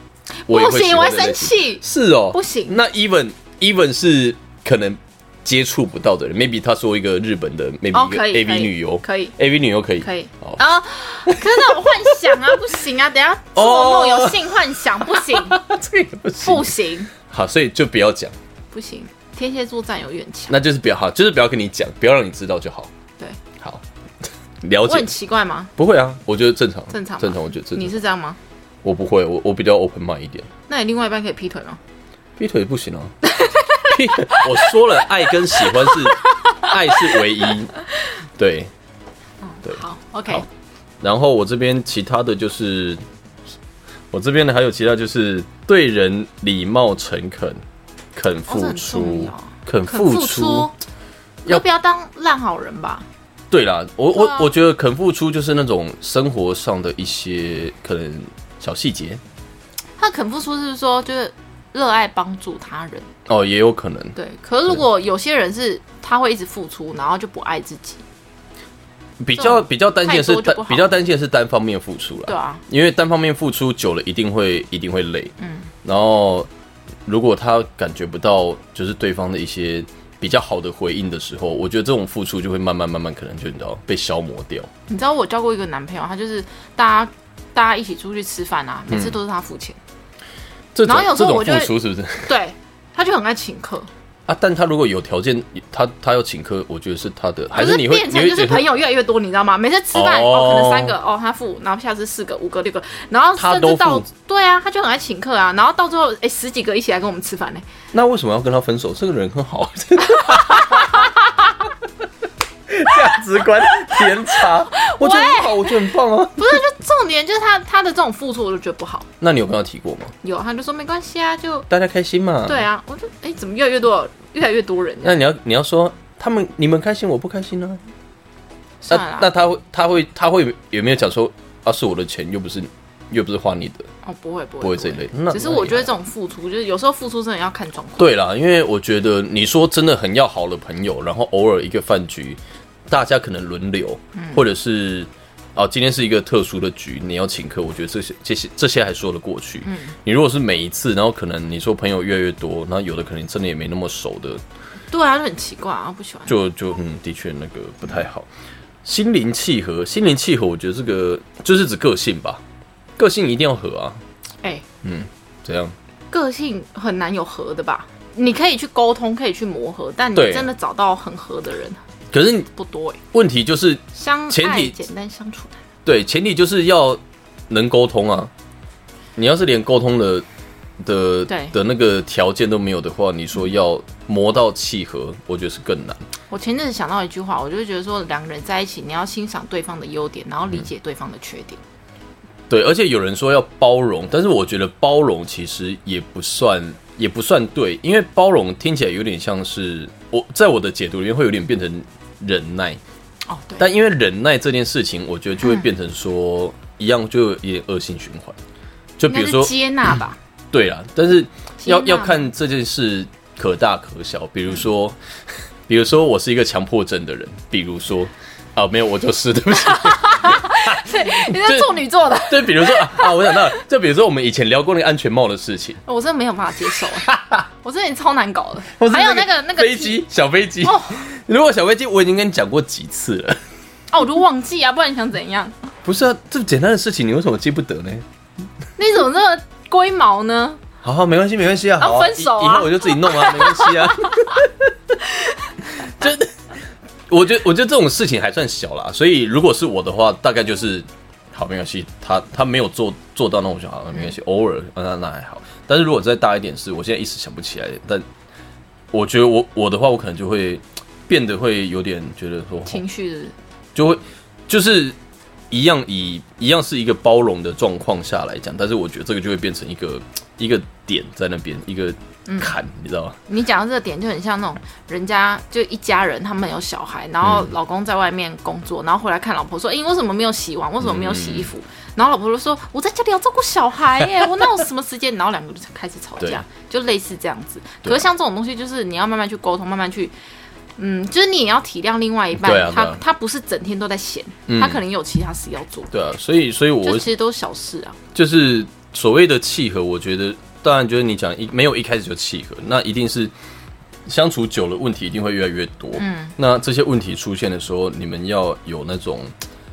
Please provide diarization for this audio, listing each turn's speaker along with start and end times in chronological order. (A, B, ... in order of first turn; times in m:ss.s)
0:00.4-0:02.8 A
0:00.5-0:10.6 B
0:07.9-0:09.4 A
0:10.0-0:15.6 A
0:11.3-0:12.8 B
0:13.6-0:18.4 B
0:16.4-0:17.1 A
0:18.7-0:20.6 A
0:20.5-0:22.9 B
0:24.6-0:25.1 B
0:24.8-0:25.7 A
0:25.8-0:28.0 B
0:26.9-0:28.4 A
0:28.8-0:30.5 B
0:30.7-0:31.8 A
0:32.4-0:33.2 B
0:33.3-0:34.8 A
0:33.9-0:37.7 B
0:35.6-0:37.3 A
0:38.4-0:38.7 B
0:39.4-0:40.5 A
0:39.6-0:40.5 B
0:41.0-0:43.0 B
0:44.1-0:47.6 B
0:48.2-0:50.7 B
0:48.5-0:50.7 A
0:51.4-0:53.1 A
0:53.5-0:59.2 B
0:54.2-0:54.5 A
1:00.0-1:03.1 A
1:03.3-1:04.2 B
1:04.2-1:08.0 A
1:09.2-1:15.3 B
1:09.4-1:11.0 A
1:12.3-1:12.6 A
1:15.4-1:15.7 A
1:15.8-1:16.5 B
1:17.1-1:24.7 B
1:24.9-1:29.8 A
1:28.9-1:29.2 B
1:30.8-1:32.3 B
1:30.9-1:33.9 A
1:34.3-1:38.7 B
1:37.6-1:47.7 A
1:39.9-1:41.0 B
1:43.4-1:44.1 B
1:47.9-1:51.1 B
1:50.1-1:51.5 A
1:52.7-1:56.6 B
1:54.0-1:59.1 A
1:59.2-2:00.1 B
2:00.2-2:01.7 A
2:01.7-2:02.6 B
2:02.5-2:05.2 A
2:05.0-2:07.8 B
2:08.8-2:09.3 A
2:08.9-2:13.9 B
2:14.0-2:18.1 A
2:14.6-2:15.9 B
2:18.0-2:34.4 B
2:24.2-2:24.4 A
2:29.6-2:30.0 A
2:34.9-2:36.3 A
2:36.3-2:38.3 B
2:38.8-2:42.4 B
2:43.0-2:44.0 B
2:44.8-2:45.8 B
2:46.1-2:51.8 A
2:50.2-2:50.5 B
2:52.1-2:52.5 B
2:52.5-2:53.0 A
2:53.1-2:54.8 B
2:53.9-2:55.6 A
2:55.8-2:58.3 B
2:59.2-3:00.2 B
3:00.8-3:06.0 B
3:01.3-3:01.6 A
3:06.3-3:11.6 A
3:12.5-3:22.8 B
3:23.3-3:23.7 A
3:23.6-3:28.4 B
3:29.0-3:29.5 B
3:29.1-3:30.2 A
3:30.5-3:35.0 B
3:31.6-3:32.3 A
3:35.7-3:45.8 B
3:39.6-3:43.5 A
3:45.9-3:47.1 A
3:46.8-3:47.4 B
3:47.6-3:50.0 A
3:48.8-3:53.4 B
3:50.6-3:51.0 A
3:53.9-3:55.7 A
3:55.8-3:58.0 B
3:58.8-4:00.6 A
4:00.8-4:04.7 B
4:01.8-4:04.4 A
4:05.0-4:05.6 A
4:05.8-4:06.3 B
4:07.1-4:18.1 B
4:18.9-4:22.8 B
4:22.7-4:23.4 A
4:23.8-4:25.0 B
4:25.5-4:33.2 B
4:32.3-4:32.6 A
4:33.3-4:50.1 A
4:37.2-4:37.5 B
4:40.8-4:41.5 B
4:50.8-4:55.9 A
4:52.4-4:53.0 B
4:54.5-4:54.8 B
4:55.9-4:57.1 B
4:56.8-4:58.0 A
4:58.1-5:03.3 B
5:04.1-5:09.4 B
5:06.0-5:06.4 A